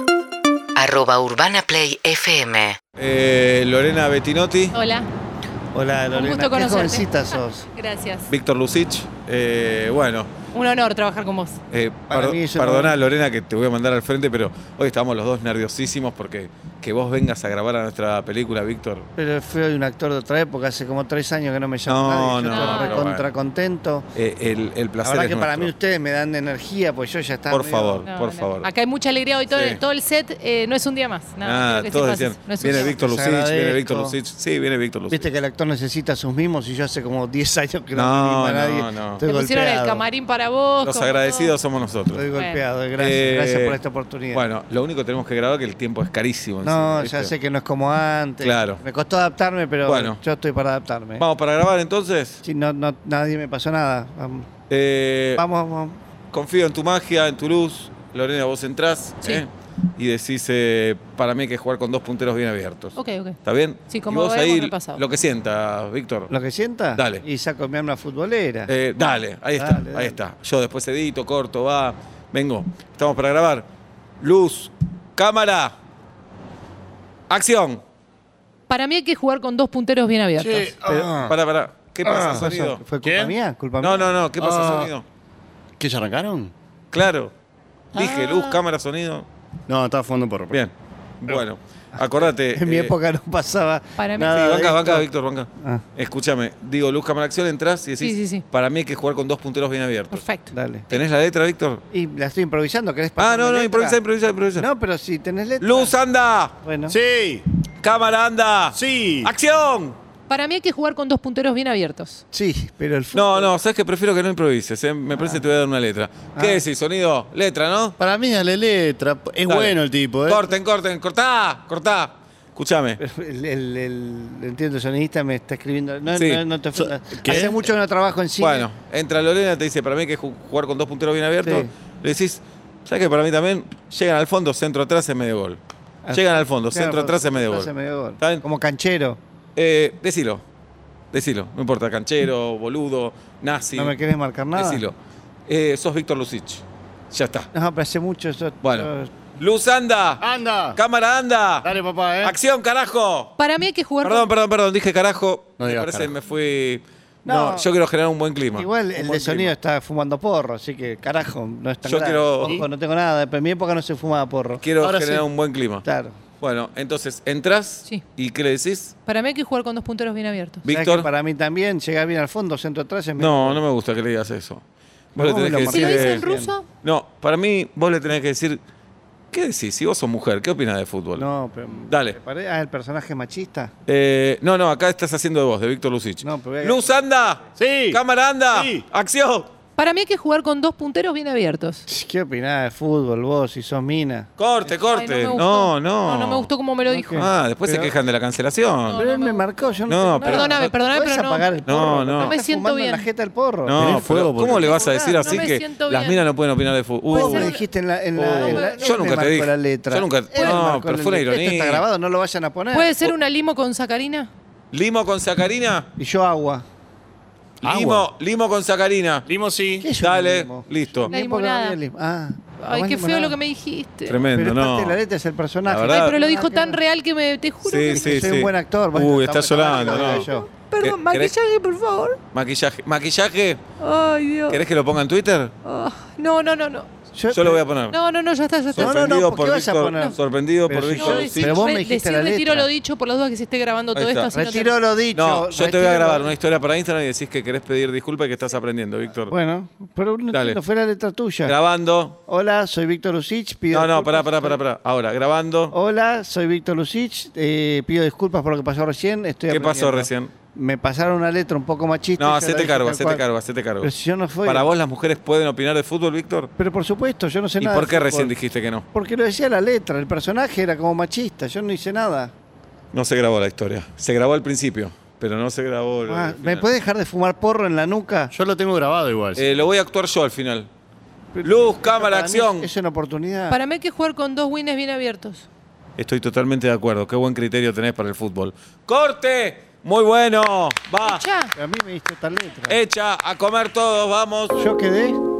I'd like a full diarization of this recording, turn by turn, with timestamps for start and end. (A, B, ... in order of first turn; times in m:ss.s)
0:00.8-0:02.8 A
0:03.0-0:04.7 B
0:04.7-0:05.1 C
0:05.7-0:07.6 D
0:06.1-0:08.3 C
0:08.3-0:10.3 B
0:10.5-0:11.6 C
0:11.7-0:19.1 B
0:12.1-0:13.0 D
0:19.2-0:24.1 D
0:21.8-0:23.2 B
0:22.5-0:23.0 C
0:24.1-0:25.7 B
0:25.0-0:28.1 D
0:27.5-0:28.7 B
0:28.0-0:33.0 C
0:29.5-0:29.8 B
0:31.4-0:35.3 B
0:32.6-0:34.2 D
0:35.1-0:40.0 D
0:37.9-0:39.2 B
0:39.2-0:41.5 C
0:40.8-0:42.2 B
0:42.1-0:44.4 D
0:42.4-0:42.6 C
0:43.0-0:43.8 B
0:44.3-0:47.3 B
0:46.6-0:51.2 D
0:48.4-0:48.8 B
0:49.8-0:50.2 B
0:51.2-0:52.4 B
0:52.4-0:54.5 D
0:54.7-0:55.4 B
0:55.4-0:56.0 D
0:56.3-1:06.3 B
1:03.0-1:03.4 C
1:03.9-1:05.0 C
1:06.3-1:08.7 D
1:07.0-1:07.2 B
1:08.7-1:13.7 B
1:09.6-1:10.2 D
1:14.2-1:15.7 B
1:17.3-1:17.8 B
1:18.7-1:20.7 C
1:20.4-1:21.3 E
1:20.9-1:21.1 D
1:21.2-1:22.8 B
1:22.0-1:22.4 E
1:22.0-1:24.1 D
1:23.0-1:23.3 E
1:23.8-1:25.0 B
1:24.4-1:24.9 E
1:25.8-1:26.5 E
1:26.9-1:27.3 B
1:27.9-1:28.6 E
1:27.9-1:29.2 B
1:29.7-1:30.6 E
1:30.5-1:32.9 B
1:32.4-1:35.0 D
1:34.0-1:34.4 C
1:34.2-1:34.7 E
1:34.3-1:40.2 B
1:38.0-1:38.4 C
1:40.1-1:41.0 C
1:40.5-1:40.8 D
1:40.9-1:41.8 B
1:41.9-1:44.0 D
1:43.2-1:44.6 B
1:44.6-1:45.9 D
1:45.6-1:46.5 B
1:46.6-1:47.0 D
1:46.9-1:47.4 E
1:47.8-1:50.0 B
1:48.7-1:49.3 E
1:50.3-1:52.2 C
1:52.3-1:53.5 D
1:53.1-1:58.0 B
1:56.3-1:56.6 D
1:58.0-2:00.5 E
1:59.4-2:03.0 B
2:03.0-2:08.7 D
2:06.1-2:06.4 B
2:06.8-2:07.6 E
2:08.4-2:15.6 B
2:11.4-2:11.7 D
2:16.0-2:19.2 D
2:16.1-2:18.4 B
2:19.6-2:20.4 B
2:21.1-2:24.0 B
2:23.7-2:24.8 D
2:24.5-2:25.0 B
2:25.5-2:27.5 B
2:27.5-2:29.1 D
2:28.6-2:30.2 B
2:30.2-2:30.8 E
2:30.8-2:31.7 B
2:31.6-2:32.4 E
2:32.2-2:33.3 B
2:33.4-2:34.3 C
2:34.0-2:39.5 B
2:35.6-2:36.1 E
2:37.2-2:37.7 D
2:38.5-2:44.6 D
2:41.8-2:42.6 B
2:42.4-2:42.7 E
2:44.6-2:45.8 B
2:44.8-2:45.2 E
2:45.8-2:46.2 D
2:46.4-2:48.9 B
2:49.1-2:50.6 C
2:50.6-2:51.1 B
2:50.7-2:53.6 D
2:53.2-2:54.6 B
2:55.1-2:56.2 B
2:55.2-2:56.5 D
2:55.7-2:56.7 C
2:56.8-2:58.6 B
2:59.3-3:01.3 B
3:01.2-3:03.7 D
3:01.9-3:02.2 B
3:03.9-3:09.5 B
3:06.2-3:07.0 D
3:07.6-3:08.8 E
3:09.8-3:11.8 C
3:11.9-3:14.3 D
3:14.4-3:16.5 B
3:14.8-3:17.3 C
3:16.9-3:17.9 D
3:17.1-3:19.0 B
3:18.8-3:21.5 C
3:18.9-3:23.8 D
3:19.9-3:20.5 B
3:21.6-3:22.4 B
3:22.2-3:23.1 C
3:23.6-3:27.6 B
3:23.8-3:25.2 E
3:24.6-3:25.4 D
3:25.2-3:26.3 C
3:27.1-3:27.6 C
3:27.1-3:33.0 D
3:28.2-3:31.8 B
3:28.4-3:29.0 C
3:30.3-3:30.6 C
3:32.7-3:34.3 C
3:34.7-3:35.9 B
3:36.0-3:36.6 D
3:37.6-3:39.2 B
3:37.6-3:38.1 E
3:39.2-3:39.9 E
3:39.8-3:43.4 D
3:40.0-3:41.1 B
3:41.1-3:41.8 C
3:42.6-3:44.2 C
3:44.1-3:45.0 B
3:44.3-3:46.8 D
3:45.6-3:46.2 B
3:45.8-3:48.2 C
3:47.6-3:50.3 B
3:47.9-3:50.5 D
3:49.7-3:52.2 C
3:50.8-3:51.3 B
3:52.3-3:53.6 B
3:53.8-3:54.6 C
3:54.5-3:55.5 B
3:55.6-3:56.9 C
3:57.1-3:57.6 D
3:57.3-3:58.0 B
3:57.9-3:59.1 C
3:58.7-4:01.7 B
3:58.8-4:02.7 D
4:00.9-4:04.7 C
4:04.0-4:04.3 B
4:04.0-4:06.3 D
4:05.1-4:09.3 B
4:09.3-4:11.6 D
4:10.3-4:10.6 B
4:11.4-4:12.2 B
4:12.3-4:14.6 D
4:13.7-4:15.7 B
4:15.7-4:23.2 D
4:19.5-4:20.3 B
4:22.2-4:26.5 B
4:23.8-4:24.7 D
4:26.6-4:28.3 D
4:27.6-4:28.8 B
4:28.9-4:32.3 D
4:32.9-4:36.7 B
4:36.0-4:38.3 D
4:38.3-4:39.5 E
4:39.3-4:40.7 B
4:41.3-4:43.6 D
4:41.4-4:42.7 B
4:43.5-4:45.4 C
4:46.0-4:51.2 B
4:51.0-4:51.5 C
4:51.5-4:52.8 D
4:52.7-4:54.6 B
4:54.6-4:55.2 D